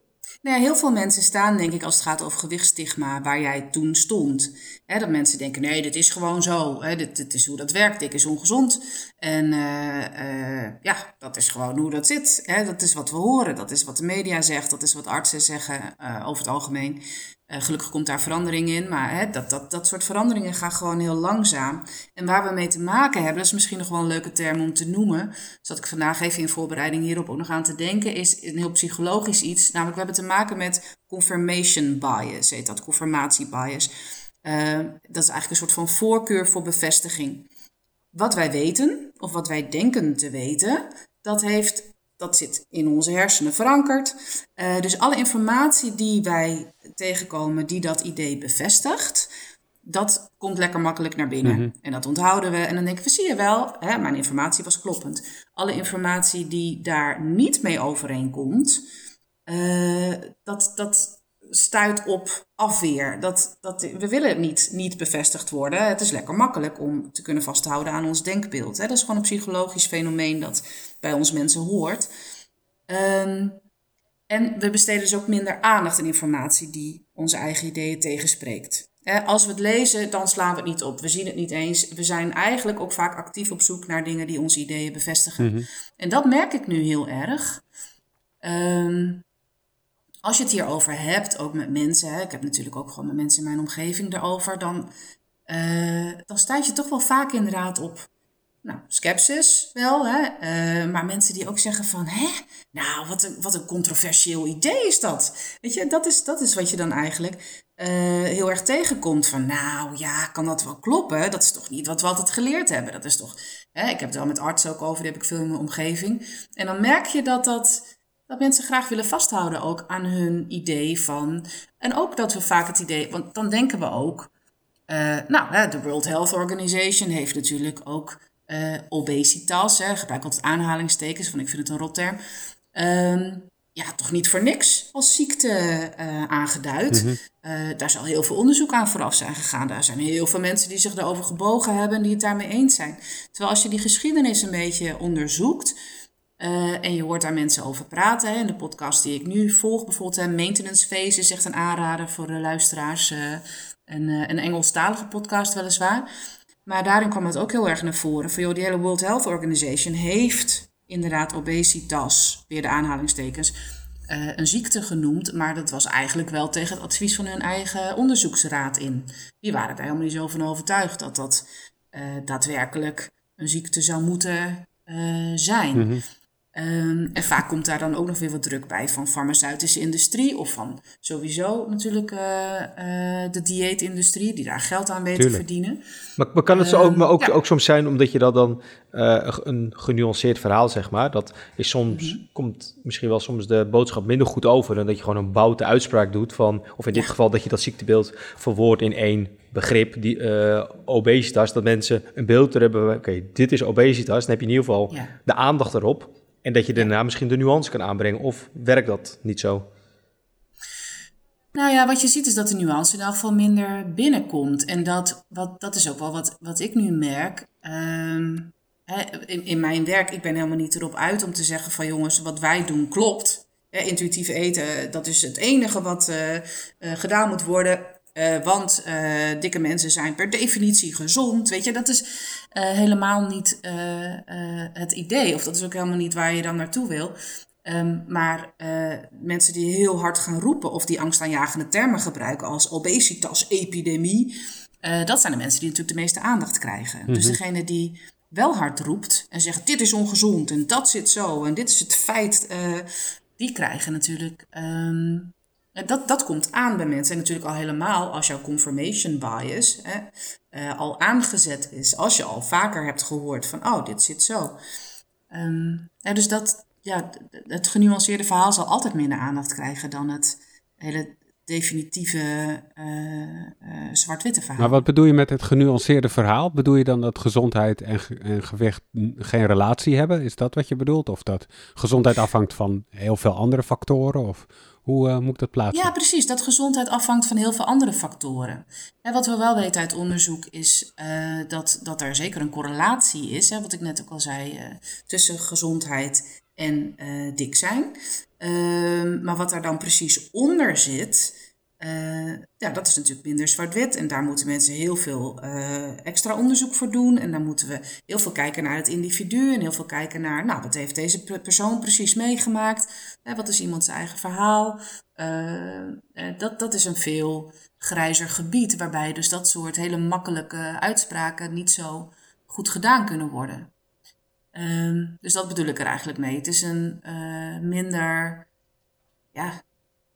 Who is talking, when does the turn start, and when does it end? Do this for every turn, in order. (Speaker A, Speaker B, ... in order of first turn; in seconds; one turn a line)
Speaker A: 0.4-33.9
Speaker A: 34.4-37.5
Speaker A: 38.1-49.3
Speaker A: 49.8-58.8
Speaker A: 59.5-72.1
Speaker A: 72.9-73.6
Speaker A: 74.3-87.6
Speaker B: 85.4-85.7
Speaker A: 88.4-89.2
Speaker A: 90.2-94.9
Speaker A: 95.5-98.1
Speaker A: 98.6-124.3
Speaker A: 124.9-132.2
Speaker A: 132.7-145.8
Speaker B: 136.9-137.2
Speaker A: 146.4-156.1
Speaker A: 156.7-163.5
Speaker A: 164.1-175.9
Speaker B: 175.7-176.0
Speaker A: 176.5-185.8
Speaker B: 185.2-185.4
Speaker C: 186.2-209.7
Speaker A: 186.5-187.3
Speaker A: 191.9-192.2
Speaker A: 211.5-264.6
Speaker B: 247.1-247.4
Speaker A: 265.3-274.8
Speaker B: 274.6-285.9
Speaker A: 285.7-323.7
Speaker A: 324.5-328.5
Speaker A: 329.3-329.6